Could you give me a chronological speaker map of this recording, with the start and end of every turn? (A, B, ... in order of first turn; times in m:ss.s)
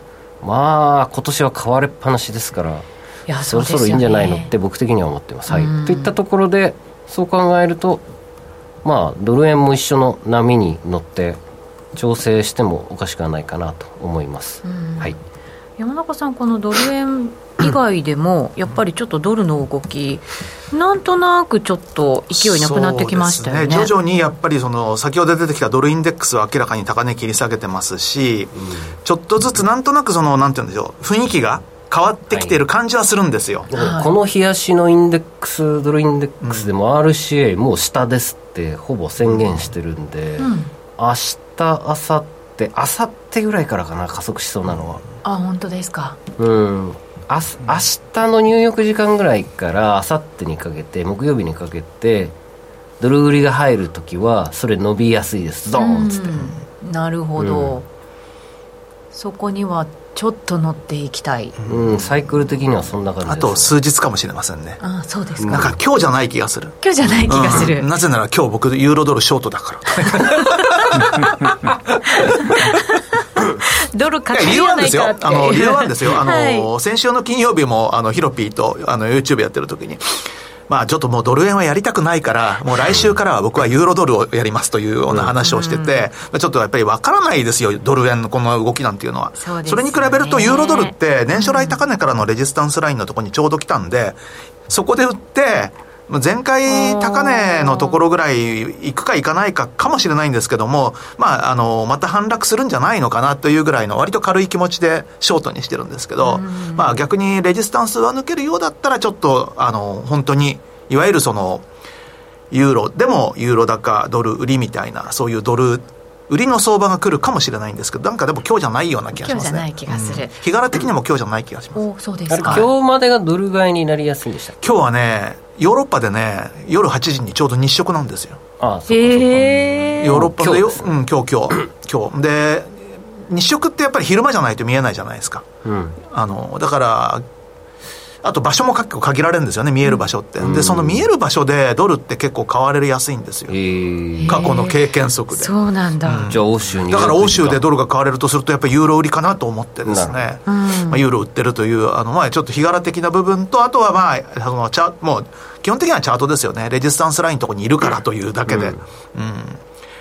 0:00.4-0:02.9 A
0:03.3-0:04.5 B
0:03.5-0:08.0 A
0:05.5-0:06.1 B
0:08.8-0:11.4 A
0:12.0-0:15.2 A
0:14.6-0:15.2 B
0:15.8-0:23.9 B
0:22.3-0:33.7 C
0:28.6-0:28.9 A
0:32.3-0:32.6 A
0:33.7-0:45.0 A
0:33.7-0:34.1 B
0:36.4-0:36.7 C
0:40.4-0:40.7 B
0:45.2-0:46.2 B
0:46.4-0:52.4 A
0:53.0-0:56.5 A
0:55.8-0:57.9 B
0:57.4-0:57.8 A
0:59.1-1:01.6 B
1:01.6-1:02.0 C
1:01.7-1:03.8 A
1:03.3-1:04.8 C
1:04.8-1:05.7 B
1:05.4-1:05.8 A
1:05.5-1:06.8 C
1:06.8-1:07.9 B
1:07.3-1:12.7 C
1:10.1-1:10.5 B
1:12.2-1:16.7 B
1:14.3-1:20.2 C
1:20.7-1:34.2 C
1:25.4-1:26.0 B
1:29.4-1:31.8 B
1:34.7-1:51.6 C
1:36.7-1:38.0 B
1:46.2-1:47.0 B
1:52.5-2:01.8 C
1:59.2-2:00.3 B
2:01.8-2:02.7 B
2:02.3-2:04.6 A
2:04.6-2:08.4 C
2:08.6-2:11.0 A
2:08.9-2:10.3 B
2:10.0-2:15.5 C
2:15.6-2:16.0 A
2:16.1-2:17.2 C
2:18.2-2:23.6 C
2:20.4-2:21.1 A
2:23.5-2:24.5 A
2:24.2-2:26.4 B
2:24.3-2:39.6 C
2:26.3-2:27.7 A
2:29.8-2:30.4 A
2:30.5-2:31.0 B
2:38.5-2:38.8 A